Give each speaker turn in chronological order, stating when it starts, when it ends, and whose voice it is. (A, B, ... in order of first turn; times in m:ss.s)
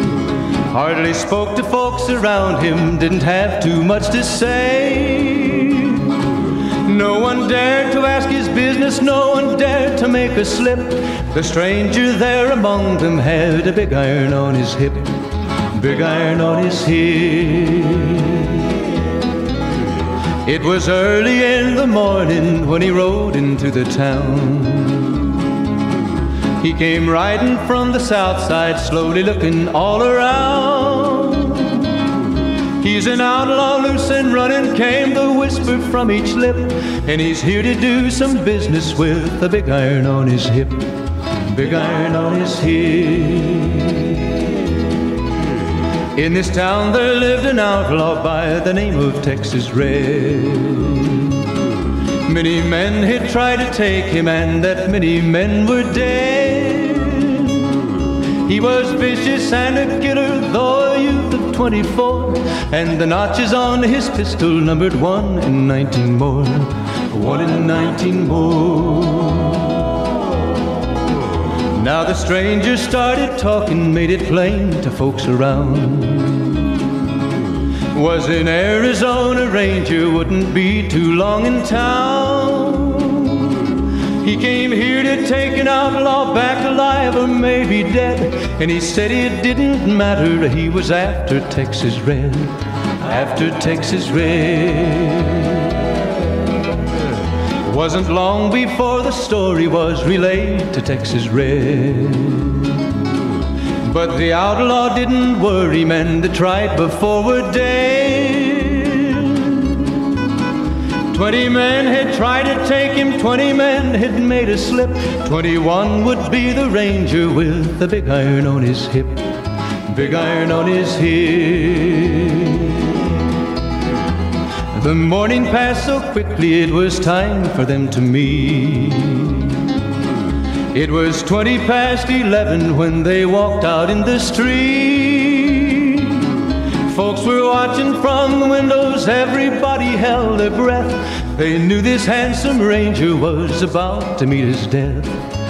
0:00.7-0:06.0 A
0:06.8-0:15.2 A
0:15.7-0:18.6 A
0:20.4-0:25.3 A
0:26.6-0:31.9 A
0:32.8-0:40.8 A
0:41.5-0:44.2 A
0:46.1-0:51.4 A
0:52.2-0:57.7 A
0:58.4-1:09.8 A
1:11.7-1:16.7 A
1:17.9-1:35.7 A
1:37.6-1:42.7 A
1:43.8-1:49.8 A
1:51.1-1:59.3 A
1:59.9-2:02.8 A
2:04.7-2:09.6 A
2:10.7-2:16.2 A
2:16.8-2:25.2 A